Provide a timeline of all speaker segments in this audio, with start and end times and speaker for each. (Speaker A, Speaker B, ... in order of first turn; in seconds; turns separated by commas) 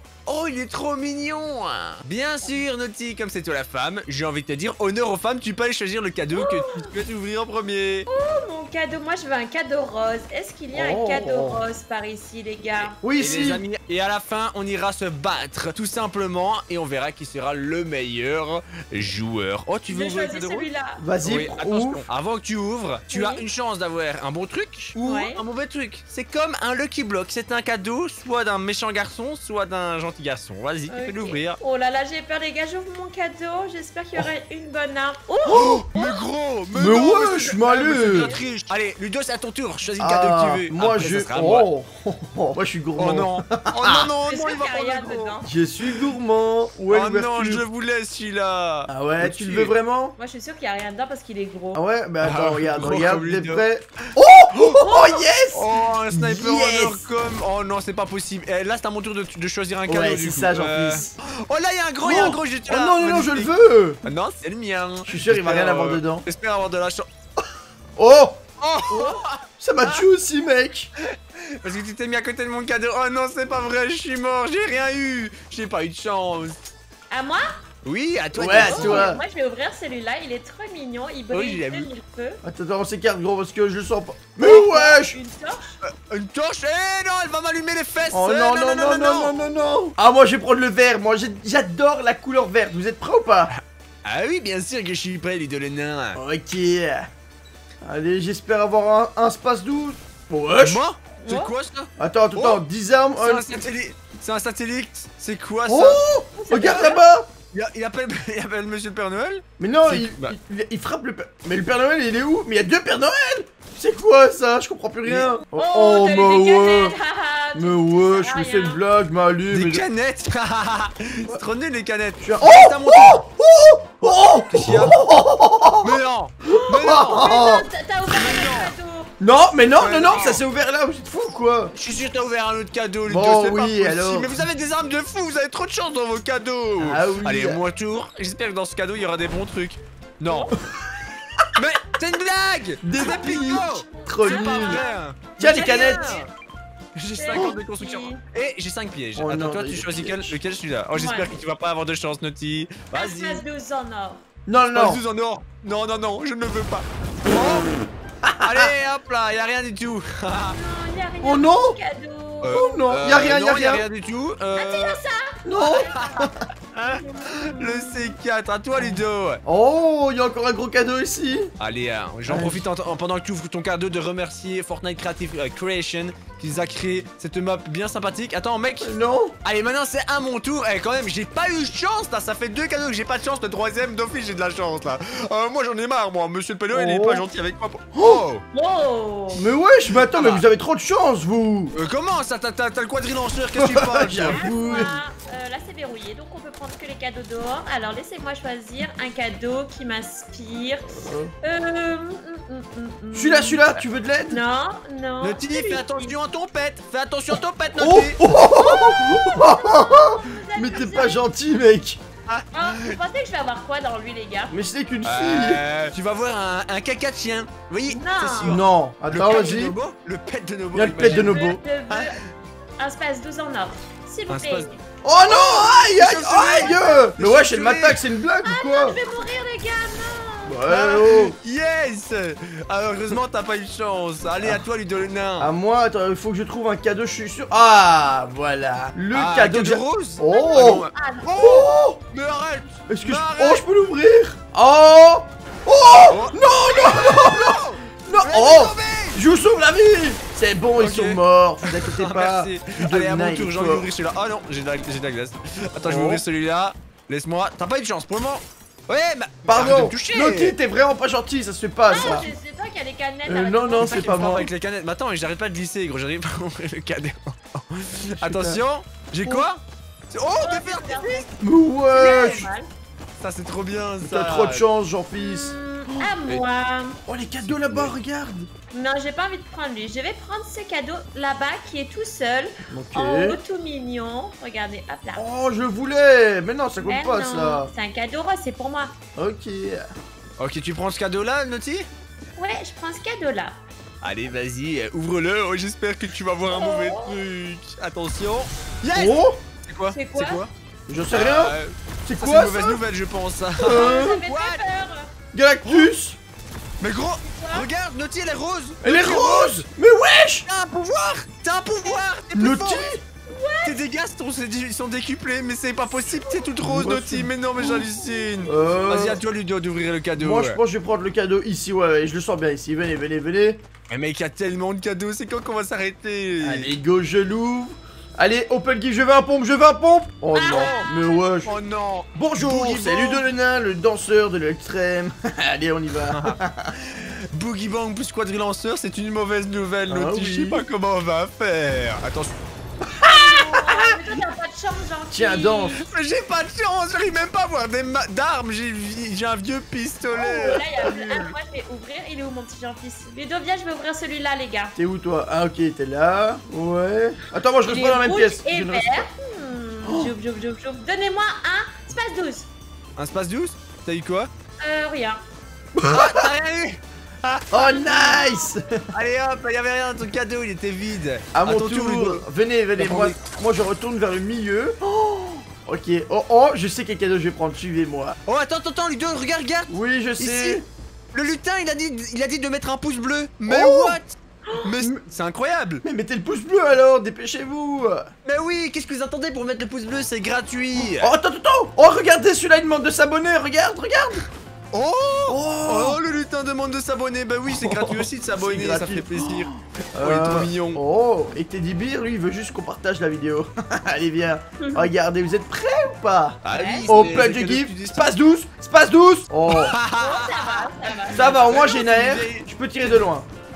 Speaker A: 0.2-8.1, Speaker B: 6.3-6.9, Speaker B: 8.1-13.0, Speaker C: 10.7-11.6, Speaker A: 12.8-20.7, Speaker C: 13.0-13.6, Speaker B: 19.9-21.0, Speaker C: 21.0-22.1, Speaker A: 21.2-31.6, Speaker B: 23.1-23.4, Speaker B: 25.0-25.4, Speaker B: 30.9-36.2, Speaker C: 35.5-35.9, Speaker A: 35.5-41.7, Speaker C: 36.7-38.3, Speaker B: 38.0-38.5, Speaker C: 40.0-44.1, Speaker A: 43.0-45.4, Speaker B: 44.2-45.5, Speaker C: 45.4-47.6, Speaker A: 46.9-49.7, Speaker C: 48.9-50.1, Speaker B: 50.1-51.8, Speaker C: 51.7-57.0, Speaker A: 52.2-53.6, Speaker B: 54.8-55.2, Speaker A: 55.5-63.5, Speaker C: 59.9-61.1, Speaker C: 62.0-64.0, Speaker A: 64.0-67.1, Speaker C: 65.1-66.2, Speaker C: 68.0-68.4, Speaker A: 68.6-70.0, Speaker B: 68.9-69.2, Speaker C: 69.6-70.9, Speaker A: 71.6-76.6, Speaker B: 77.1-77.4, Speaker A: 77.8-79.1, Speaker C: 78.3-79.2, Speaker B: 78.5-82.4, Speaker A: 81.3-81.9, Speaker C: 82.4-85.2, Speaker B: 84.4-85.7, Speaker A: 85.8-89.4, Speaker C: 88.1-93.5, Speaker A: 93.5-96.2, Speaker C: 96.1-97.1, Speaker C: 97.8-100.8, Speaker A: 100.6-102.6, Speaker B: 101.2-101.5, Speaker C: 102.0-103.5, Speaker A: 103.2-106.0, Speaker C: 105.7-107.3, Speaker B: 106.3-107.0, Speaker A: 107.5-110.3, Speaker C: 109.6-116.9, Speaker A: 115.0-115.3, Speaker B: 115.5-118.8, Speaker C: 117.5-119.8, Speaker A: 119.5-123.2, Speaker C: 122.2-127.7, Speaker A: 124.1-125.0, Speaker A: 125.8-127.3, Speaker B: 127.1-129.1, Speaker A: 128.1-128.7, Speaker C: 129.2-131.7, Speaker A: 129.7-130.4, Speaker A: 131.7-140.5, Speaker C: 133.1-134.4, Speaker C: 136.8-137.6, Speaker B: 140.3-140.6, Speaker A: 141.5-146.3, Speaker C: 142.8-144.8, Speaker B: 143.0-146.2, Speaker C: 145.4-146.2, Speaker A: 146.9-153.4, Speaker B: 147.1-148.2, Speaker C: 149.2-150.3, Speaker B: 150.9-151.3, Speaker B: 152.9-154.2, Speaker C: 154.4-155.0, Speaker A: 154.7-157.7, Speaker C: 158.2-158.7, Speaker A: 158.4-160.6, Speaker B: 160.5-163.0, Speaker C: 161.2-161.8, Speaker A: 162.4-165.0, Speaker C: 162.5-163.8, Speaker B: 164.5-166.3, Speaker C: 165.4-166.4, Speaker A: 166.7-169.4, Speaker B: 167.2-168.1, Speaker C: 168.8-171.5, Speaker A: 171.6-188.4, Speaker C: 172.2-172.6, Speaker C: 178.8-179.3, Speaker C: 186.7-187.2, Speaker C: 187.9-188.2, Speaker B: 188.5-189.5, Speaker C: 189.3-191.7, Speaker A: 190.0-190.4, Speaker A: 191.7-194.9, Speaker C: 193.6-194.9, Speaker B: 194.3-203.7, Speaker C: 201.0-201.3, Speaker C: 203.1-204.4, Speaker B: 204.3-206.2, Speaker A: 205.2-208.2, Speaker C: 207.8-212.0, Speaker B: 208.4-211.2, Speaker A: 212.3-213.0, Speaker B: 212.5-214.6, Speaker C: 214.5-215.6, Speaker A: 215.0-222.1, Speaker B: 217.9-218.6, Speaker C: 218.4-219.8, Speaker C: 220.7-221.6, Speaker B: 221.0-222.2, Speaker B: 222.8-224.8, Speaker A: 224.3-224.7, Speaker C: 225.0-229.0, Speaker A: 225.3-228.0, Speaker B: 228.4-230.6, Speaker C: 230.4-231.3, Speaker A: 230.7-235.5, Speaker C: 235.4-242.0, Speaker A: 239.1-243.6, Speaker B: 240.2-241.4, Speaker C: 242.9-253.9, Speaker A: 246.1-249.2, Speaker A: 250.8-260.5, Speaker C: 255.8-256.2, Speaker C: 259.4-262.3, Speaker B: 261.8-264.1, Speaker A: 261.9-262.3, Speaker C: 263.2-264.5, Speaker A: 263.8-271.3, Speaker C: 268.2-268.6, Speaker B: 270.3-271.3, Speaker C: 271.4-272.5, Speaker B: 271.9-272.7, Speaker A: 273.2-274.6, Speaker C: 274.0-276.0, Speaker B: 275.2-277.0, Speaker C: 277.1-278.5, Speaker A: 277.4-277.9, Speaker B: 278.7-285.2, Speaker C: 282.7-283.4, Speaker C: 285.1-287.7, Speaker B: 286.8-288.9, Speaker C: 289.1-289.8, Speaker A: 290.4-291.9, Speaker B: 292.4-293.6, Speaker A: 294.0-300.5, Speaker B: 296.5-297.2, Speaker C: 298.9-299.4, Speaker B: 299.9-300.4, Speaker C: 300.9-301.5, Speaker A: 301.1-304.6, Speaker C: 302.1-302.8, Speaker C: 303.6-304.2, Speaker B: 303.7-305.1, Speaker C: 305.3-306.2, Speaker A: 306.8-309.6, Speaker B: 307.2-307.6, Speaker C: 308.8-310.5, Speaker A: 310.4-312.9, Speaker C: 312.3-313.0, Speaker B: 313.3-313.8, Speaker A: 313.6-320.6, Speaker C: 316.6-317.8, Speaker C: 318.4-319.2, Speaker C: 320.2-323.6, Speaker A: 323.9-326.7, Speaker C: 326.4-331.5, Speaker B: 330.3-331.2, Speaker A: 330.5-330.9, Speaker A: 331.4-333.2, Speaker C: 332.1-336.7, Speaker A: 336.1-342.4, Speaker C: 339.9-340.6, Speaker A: 343.0-344.0, Speaker B: 343.0-345.9, Speaker C: 345.1-345.8, Speaker A: 345.8-351.3, Speaker B: 350.1-354.7, Speaker C: 354.8-359.1, Speaker B: 357.6-362.5, Speaker C: 359.8-360.1, Speaker A: 363.0-364.3, Speaker B: 364.6-365.2, Speaker C: 365.8-366.3, Speaker A: 365.8-367.4, Speaker C: 367.5-368.7, Speaker B: 367.5-368.5, Speaker A: 368.9-372.2, Speaker C: 371.3-378.2, Speaker A: 372.8-373.2, Speaker A: 378.2-380.6, Speaker C: 379.7-380.6, Speaker A: 381.1-385.8, Speaker C: 383.4-384.0, Speaker C: 385.8-388.1, Speaker A: 388.2-391.1, Speaker C: 390.7-394.2, Speaker A: 394.7-400.8, Speaker C: 395.3-396.0, Speaker C: 397.5-409.8, Speaker B: 404.6-404.9, Speaker A: 406.4-408.1, Speaker B: 406.5-406.9, Speaker A: 409.5-412.5, Speaker B: 409.9-411.5, Speaker C: 411.1-413.3